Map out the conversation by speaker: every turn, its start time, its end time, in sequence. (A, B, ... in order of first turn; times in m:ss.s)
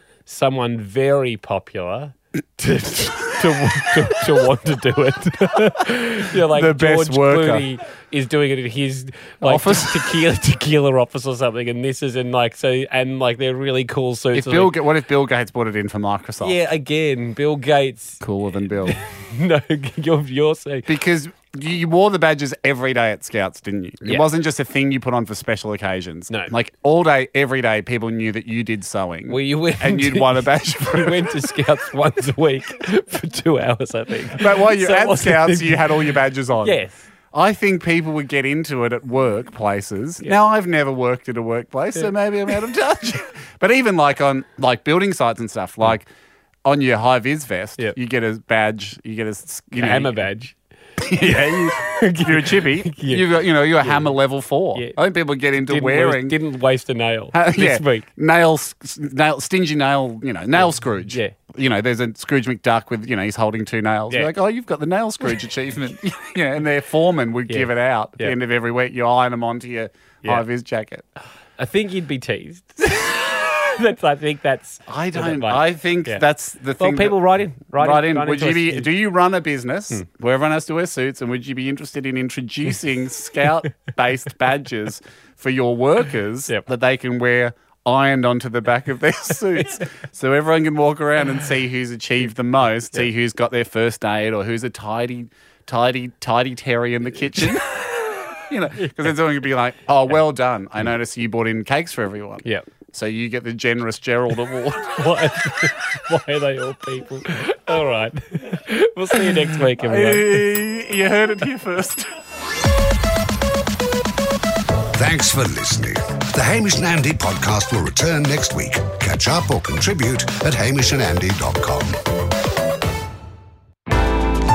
0:00.3-0:14.8 A
0:06.4-0:07.7 B
0:09.4-0:10.2 B
0:14.3-0:16.6 B
0:16.4-0:18.2 A
0:18.2-0:19.0 B
0:18.8-0:21.0 A
0:20.9-0:31.5 B
0:29.3-0:35.9 A
0:34.4-0:36.8 B
0:36.6-0:37.0 A
0:37.3-0:46.1 B
0:46.6-0:50.2 B
0:49.7-0:50.5 A
0:51.0-0:56.4 B
0:51.2-0:53.3 A
0:53.8-0:54.1 A
0:55.6-0:58.1 A
0:57.3-1:11.0 B
1:01.1-1:01.4 A
1:07.5-1:08.4 A
1:11.6-1:16.2 A
1:14.9-1:45.1 B
1:16.8-1:18.9 A
1:45.0-1:50.5 A
1:49.2-1:52.1 B
1:55.0-2:02.0 C